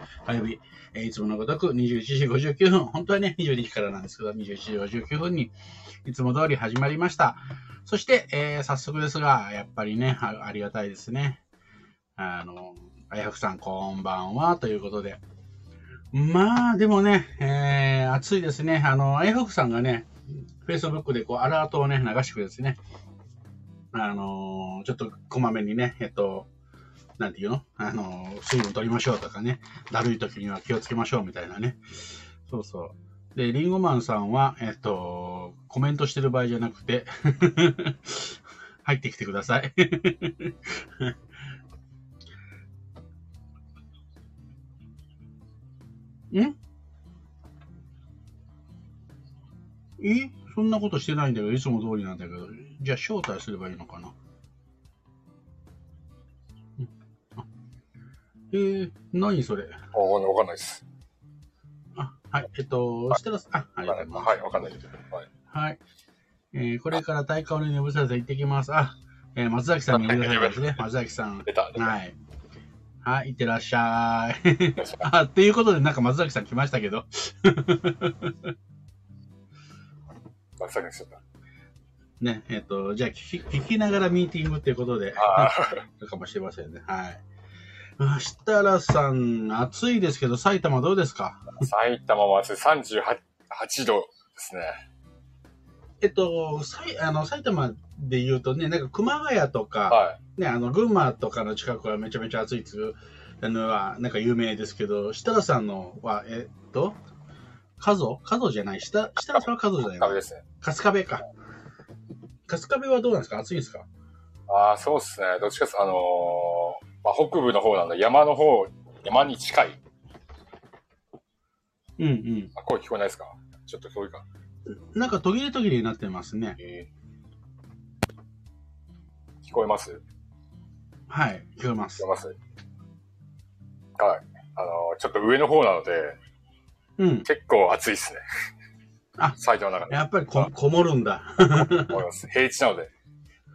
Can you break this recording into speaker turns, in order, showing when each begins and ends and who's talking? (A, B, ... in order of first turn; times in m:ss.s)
0:00.3-0:05.5 A
0:06.0-0:11.4 A
0:12.2-0:15.2 A
0:16.1-0:20.1 A
0:20.6-0:22.8 A
0:23.9-0:26.5 A
0:27.2-0:31.8 A
0:32.4-0:41.1 A
0:50.0-0:54.1 A
0:58.5-0:59.8 A
0:59.9-1:00.8 B
1:02.0-1:04.8 A
1:03.9-1:05.3 B
1:05.5-1:05.8 A
1:06.5-1:12.2 A
1:09.9-1:10.8 B
1:11.5-1:12.0 B
1:13.0-1:18.5 A
1:14.8-1:15.0 B
1:20.6-1:21.2 B
1:22.2-1:27.2 A
1:25.2-1:25.8 B
1:28.0-1:31.7 A
1:31.6-1:34.7 B
1:36.0-1:47.0 A
1:39.9-1:40.2 B
1:47.8-1:51.2 A
1:50.0-1:50.4 B
1:52.5-1:53.9 A
1:54.5-1:59.8 B
2:02.0-2:02.5 A
2:02.6-2:04.2 B
2:04.7-2:06.6 A
2:06.6-2:06.9 B
2:09.4-2:10.0 B
2:11.1-2:12.1 A
2:12.0-2:12.4 B
2:14.0-2:16.2 B
2:17.0-2:17.3 A
2:17.3-2:18.2 B
2:19.4-2:20.5 B
2:19.9-2:22.0 A
2:21.8-2:22.9 B